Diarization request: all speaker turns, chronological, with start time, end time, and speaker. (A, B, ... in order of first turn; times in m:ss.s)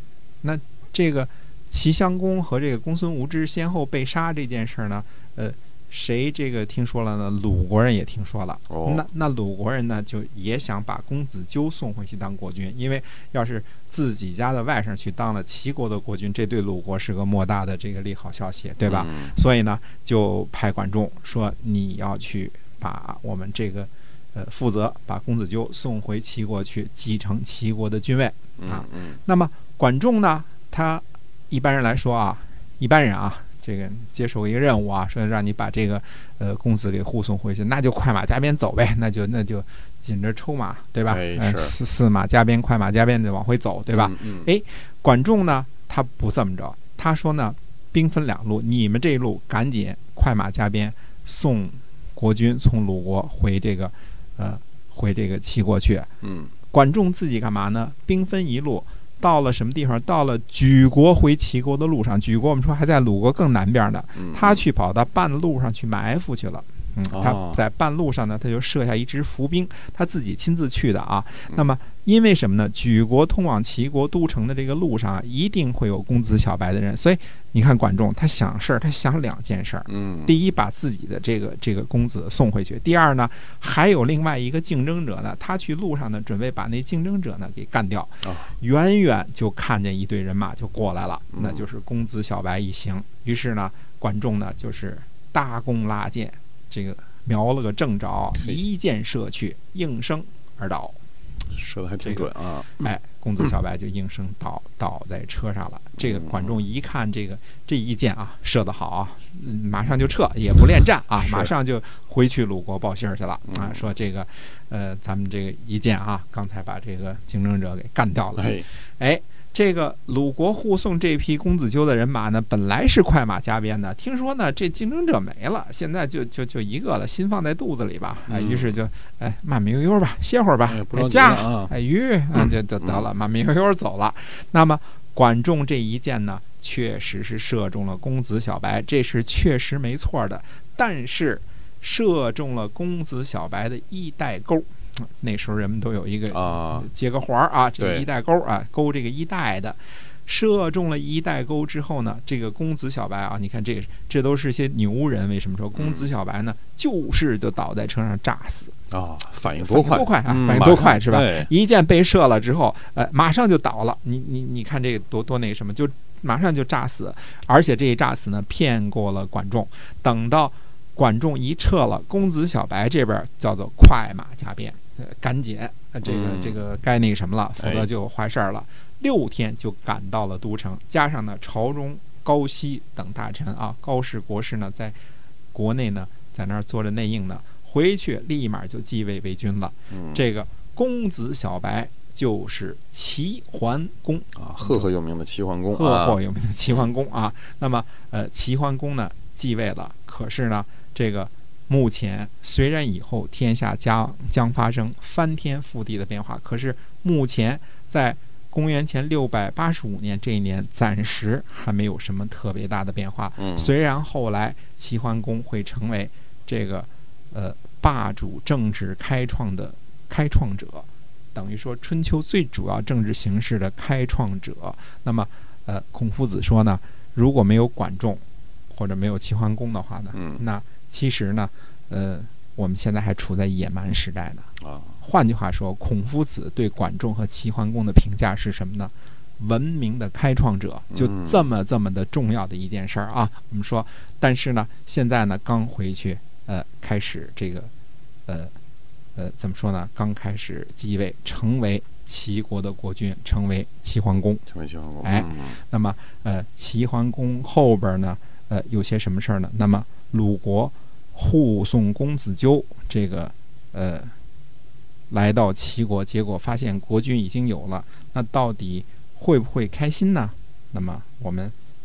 0:00.4-0:56.1 A
0:08.7-0:09.0 B
0:18.8-0:19.4 B
0:28.6-0:29.2 B
0:41.1-0:41.8 B
0:43.9-0:44.5 B
0:56.2-0:56.5 B
0:56.7-1:41.0 A
1:04.2-1:04.6 B
1:07.1-1:07.6 B
1:19.9-1:20.3 B
1:28.2-1:28.5 B
1:31.3-1:31.6 B
1:38.4-1:38.6 B
1:41.5-1:42.7 B
1:42.0-2:38.8 A
1:46.0-1:46.6 B
1:51.2-1:51.5 B
1:53.5-1:53.8 B
1:58.4-1:58.7 B
2:08.3-2:08.8 B
2:10.7-2:11.7 B
2:12.4-2:13.1 B
2:26.3-2:26.9 B
2:27.8-2:28.1 B
2:35.7-2:36.1 B
2:38.9-2:41.5 B
2:39.5-3:05.0 A
2:56.0-2:56.6 B
2:57.6-2:57.9 B
3:05.5-3:14.9 A
3:09.9-3:10.2 B
3:14.4-3:16.2 B
3:15.7-3:54.5 A
3:33.4-3:33.7 B
3:50.1-3:50.4 B
3:54.6-3:55.0 B
3:55.0-4:07.7 A
4:00.9-4:01.4 B
4:08.3-4:08.5 A
4:09.2-4:14.4 A
4:14.5-4:15.6 B
4:15.0-4:24.1 A
4:25.1-4:31.6 A